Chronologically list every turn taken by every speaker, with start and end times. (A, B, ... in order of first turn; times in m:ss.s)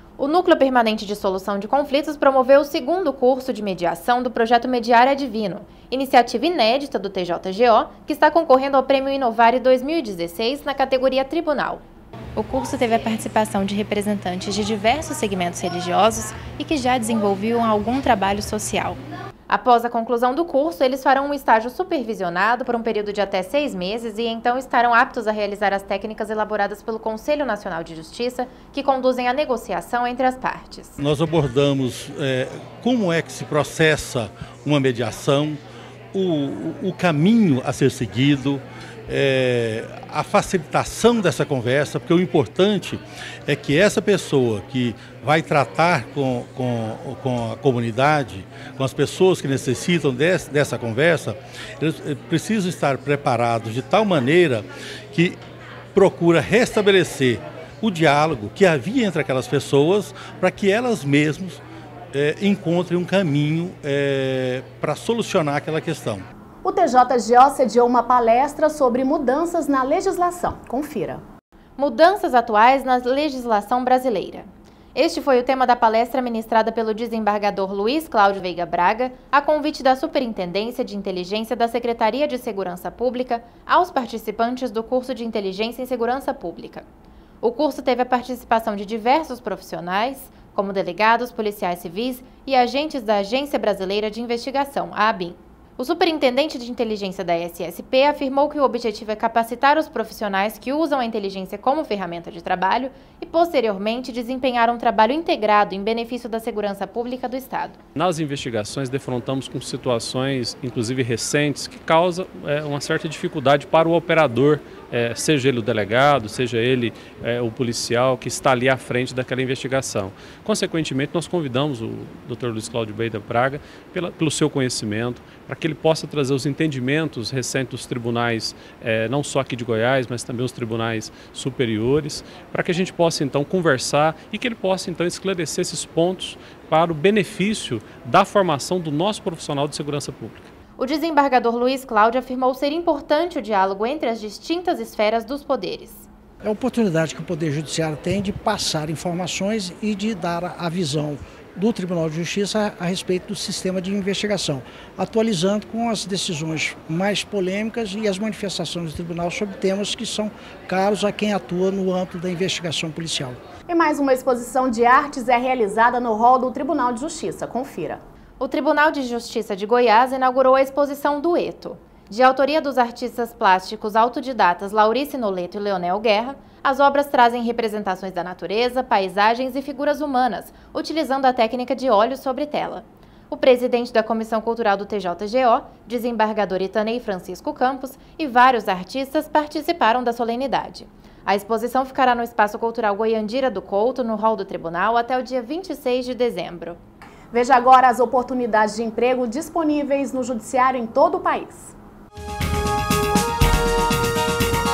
0:00.2-0:11.8 A
0:12.4-0:31.0 A
0:31.0-0:35.6 B
0:36.1-0:55.4 B
0:55.9-1:01.6 B
1:02.1-1:06.2 B
1:06.6-1:11.2 C
1:11.8-1:26.8 A
1:27.4-1:47.8 A
1:47.9-2:20.5 D
2:20.8-2:26.1 A
2:26.4-2:43.4 E
2:43.7-2:48.0 C
2:48.4-3:16.8 A
3:17.3-3:21.7 C